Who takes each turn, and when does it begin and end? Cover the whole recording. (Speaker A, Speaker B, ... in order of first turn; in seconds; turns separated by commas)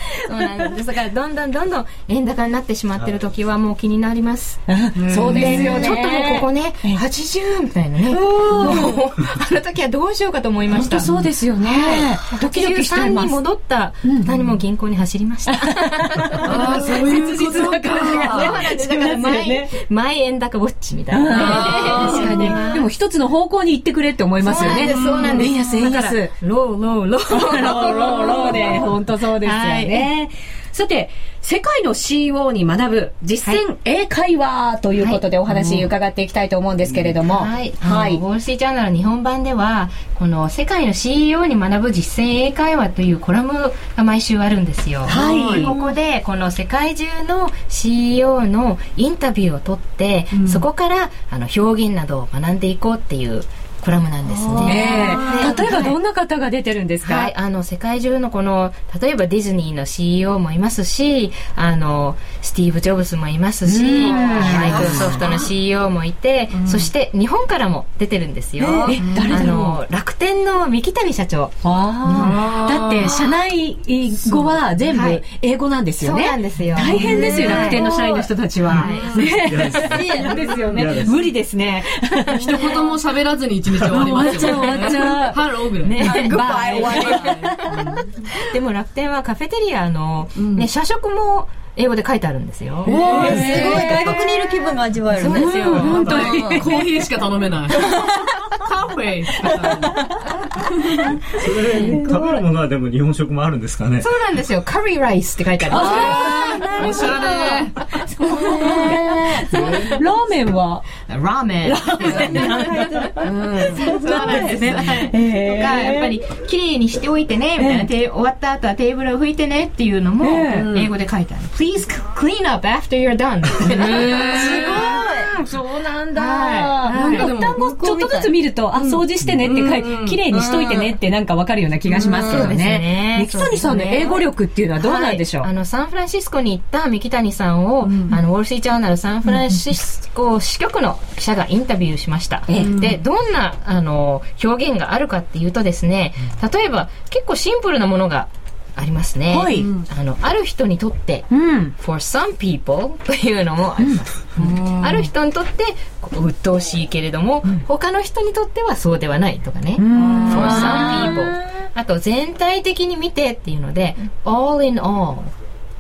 Speaker A: 0.2-11.1, Speaker B: 4.7-7.0, Speaker C: 5.0-6.0, Speaker B: 8.1-9.0, Speaker B: 10.7-13.4, Speaker A: 11.7-16.9, Speaker B: 14.0-14.4, Speaker B: 15.5-19.7, Speaker C: 16.4-18.6, Speaker A: 17.9-22.9, Speaker D: 18.3-18.6, Speaker B: 21.1-26.4, Speaker C: 21.3-22.4, Speaker A: 24.4-30.1, Speaker D: 24.6-25.5, Speaker B: 27.3-38.2, Speaker A: 37.2-55.9, Speaker B: 45.1-45.7, Speaker C: 45.1-45.7, Speaker C: 50.3-50.6, Speaker D: 54.5-55.7, Speaker B: 54.6-57.3, Speaker C: 54.8-55.6, Speaker A: 57.0-71.6, Speaker B: 63.6-65.4, Speaker C: 64.2-64.7, Speaker B: 68.6-69.8, Speaker C: 68.8-69.3, Speaker B: 71.6-82.9, Speaker C: 72.1-73.2, Speaker A: 74.9-75.2, Speaker A: 76.0-77.9, Speaker C: 76.9-77.3, Speaker D: 76.9-78.3, Speaker A: 78.7-79.2, Speaker E: 79.3-81.2, Speaker D: 79.8-81.1, Speaker C: 82.3-88.0, Speaker B: 83.8-87.8, Speaker A: 85.8-86.4, Speaker D: 86.0-87.7, Speaker A: 88.4-93.9, Speaker C: 90.4-90.7, Speaker C: 92.9-93.9, Speaker D: 92.9-96.4, Speaker B: 92.9-94.2, Speaker B: 95.2-96.9, Speaker A: 95.2-96.5, Speaker C: 95.7-101.0, Speaker E: 95.9-96.3, Speaker B: 99.9-100.2, Speaker E: 101.3-104.1, Speaker A: 104.0-107.1, Speaker B: 105.7-106.5, Speaker C: 105.7-107.8, Speaker D: 105.8-107.6, Speaker B: 108.2-110.9, Speaker D: 108.2-109.5, Speaker A: 108.2-109.7, Speaker A: 111.1-112.6, Speaker B: 111.6-116.2, Speaker D: 112.2-113.3, Speaker C: 113.2-113.9, Speaker A: 113.8-125.5, Speaker D: 113.9-114.6, Speaker B: 117.6-117.9, Speaker B: 120.2-120.7, Speaker C: 120.5-120.9, Speaker C: 123.6-130.9, Speaker D: 124.3-125.3, Speaker A: 126.1-127.3, Speaker B: 126.9-135.5, Speaker C: 131.9-132.5, Speaker A: 132.0-165.3, Speaker C: 137.9-138.2, Speaker B: 142.5-142.9, Speaker C: 142.6-143.0, Speaker B: 149.3-149.7, Speaker B: 151.3-151.8, Speaker C: 154.4-154.9, Speaker B: 159.8-161.4, Speaker C: 159.9-161.1